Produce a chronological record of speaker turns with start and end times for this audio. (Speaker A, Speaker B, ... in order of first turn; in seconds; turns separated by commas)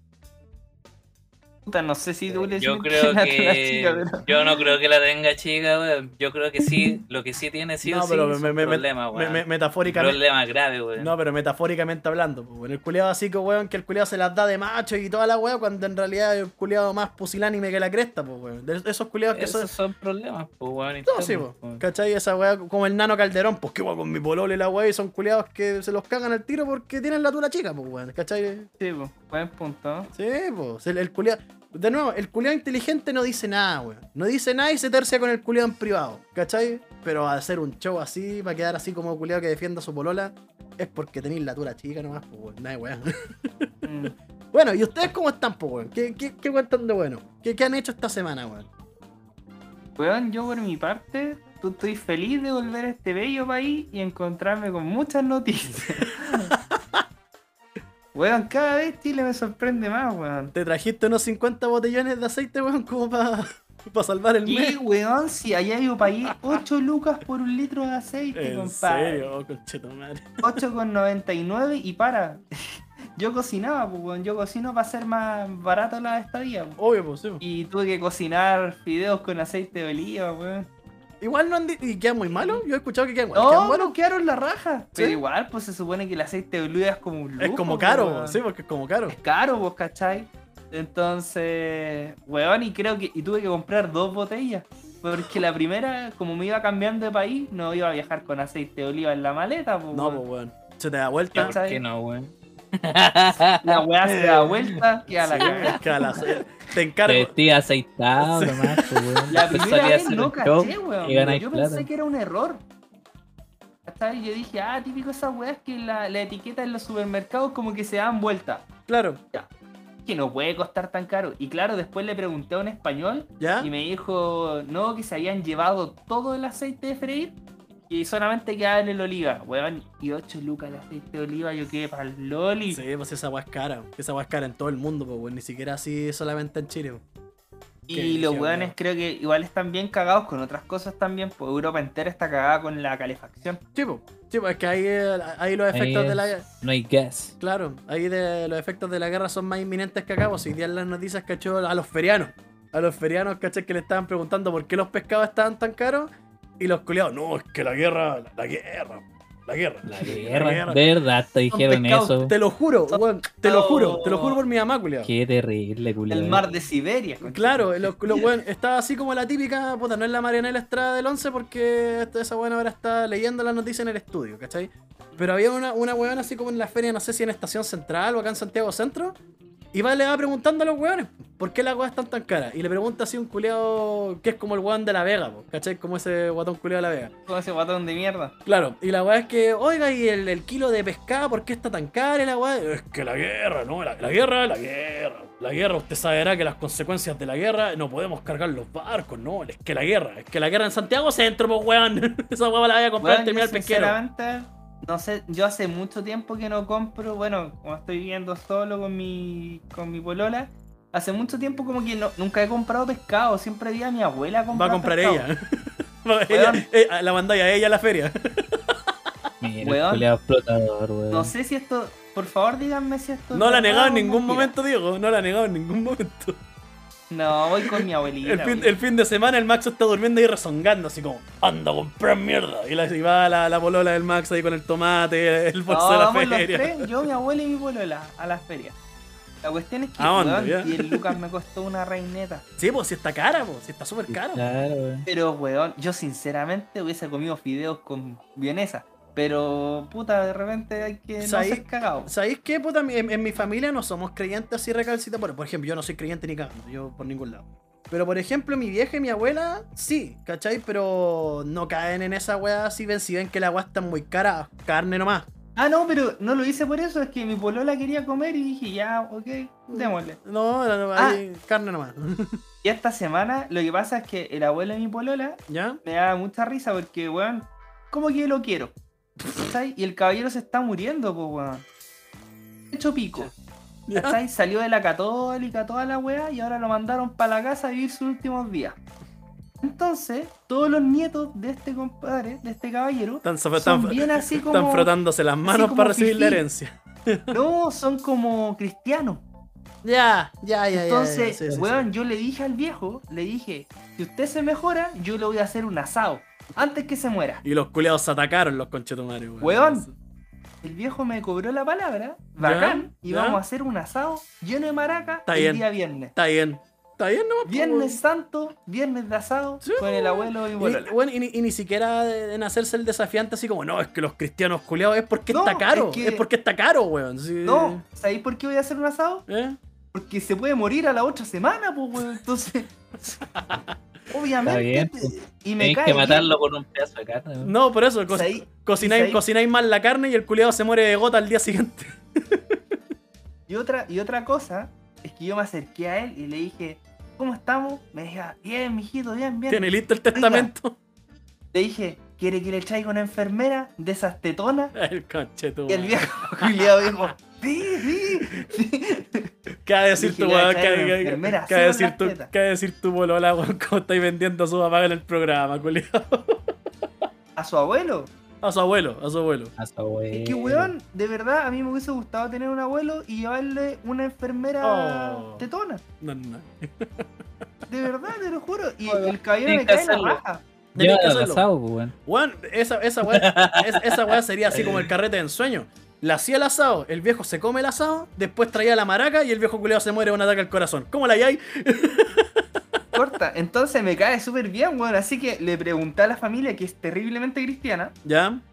Speaker A: 1.6-4.5, Speaker B: 2.3-11.1, Speaker C: 7.8-10.2, Speaker C: 11.0-19.7, Speaker B: 19.3-21.8, Speaker C: 21.1-28.7, Speaker A: 28.8-30.1, Speaker C: 30.1-43.7, Speaker A: 43.8-44.1, Speaker C: 44.5-48.7, Speaker A: 50.0-56.5, Speaker C: 56.5-57.0, Speaker A: 58.1-60.5, Speaker C: 60.5-64.8, Speaker A: 64.4-69.3, Speaker C: 66.2-66.6, Speaker C: 68.3-70.6, Speaker A: 70.4-76.8, Speaker C: 76.8-77.4, Speaker A: 77.4-80.7, Speaker C: 81.2-83.9, Speaker A: 82.3-82.6, Speaker A: 83.3-88.4, Speaker C: 87.4-89.1, Speaker A: 89.1-100.2, Speaker C: 99.9-101.5, Speaker B: 101.3-103.8, Speaker A: 101.4-101.8, Speaker A: 103.6-105.8, Speaker C: 104.2-104.5, Speaker C: 105.1-107.3, Speaker B: 105.4-106.3, Speaker B: 107.0-111.9, Speaker C: 108.2-109.3, Speaker A: 109.3-112.6, Speaker A: 113.8-118.7, Speaker C: 118.9-119.2, Speaker A: 120.0-127.3, Speaker C: 123.4-123.7, Speaker A: 127.9-132.8, Speaker C: 132.7-137.0, Speaker A: 137.9-143.6, Speaker C: 137.9-138.7, Speaker C: 143.8-146.4, Speaker B: 145.7-147.3, Speaker C: 147.4-160.9, Speaker B: 159.9-162.3, Speaker C: 161.5-165.1, Speaker A: 162.9-164.4, Speaker B: 165.0-166.4, Speaker A: 166.1-168.3, Speaker C: 167.2-179.2, Speaker C: 179.7-187.1, Speaker A: 187.3-188.3, Speaker C: 188.4-204.0, Speaker A: 203.0-215.3, Speaker C: 214.5-218.9, Speaker A: 216.3-216.7, Speaker B: 219.4-221.3, Speaker A: 219.6-220.1, Speaker A: 221.1-224.5, Speaker C: 223.3-226.4, Speaker A: 227.1-228.7, Speaker C: 227.7-236.9, Speaker A: 235.7-238.8, Speaker A: 239.4-242.4, Speaker C: 240.0-241.1, Speaker C: 242.6-244.4, Speaker B: 244.1-245.1, Speaker A: 245.1-252.1, Speaker C: 251.2-265.3, Speaker A: 265.6-270.2, Speaker C: 269.7-272.4, Speaker A: 270.9-271.2, Speaker A: 272.6-278.7, Speaker C: 275.5-275.8, Speaker A: 279.3-281.6, Speaker A: 282.7-283.3, Speaker C: 283.9-284.2, Speaker A: 283.9-288.8, Speaker A: 289.6-294.9, Speaker C: 293.2-297.3, Speaker A: 295.4-296.4, Speaker A: 297.3-299.2, Speaker C: 299.8-301.9, Speaker A: 300.7-307.4, Speaker C: 307.4-309.9, Speaker A: 309.4-309.9, Speaker A: 310.6-316.1, Speaker C: 312.4-313.4, Speaker C: 315.3-318.0, Speaker A: 317.4-320.9, Speaker C: 319.6-327.8, Speaker A: 325.3-326.2, Speaker A: 327.4-329.2, Speaker C: 329.3-329.6, Speaker A: 329.9-332.7, Speaker C: 333.3-333.8, Speaker A: 334.1-336.2, Speaker B: 334.4-337.5, Speaker C: 337.4-342.8, Speaker A: 338.1-339.2, Speaker A: 343.5-350.5, Speaker C: 349.5-350.8, Speaker A: 351.5-354.7, Speaker C: 354.7-357.1, Speaker A: 355.7-359.3, Speaker C: 359.6-367.1, Speaker A: 360.0-362.3, Speaker A: 367.4-368.1, Speaker C: 368.4-369.5, Speaker B: 369.6-370.7, Speaker A: 370.1-375.8, Speaker C: 374.6-375.4, Speaker C: 376.0-377.0, Speaker A: 377.7-380.4, Speaker B: 379.4-380.2, Speaker C: 380.7-381.4, Speaker B: 380.8-381.9, Speaker C: 382.1-392.8, Speaker B: 383.1-384.9, Speaker A: 392.9-397.9, Speaker C: 398.0-398.4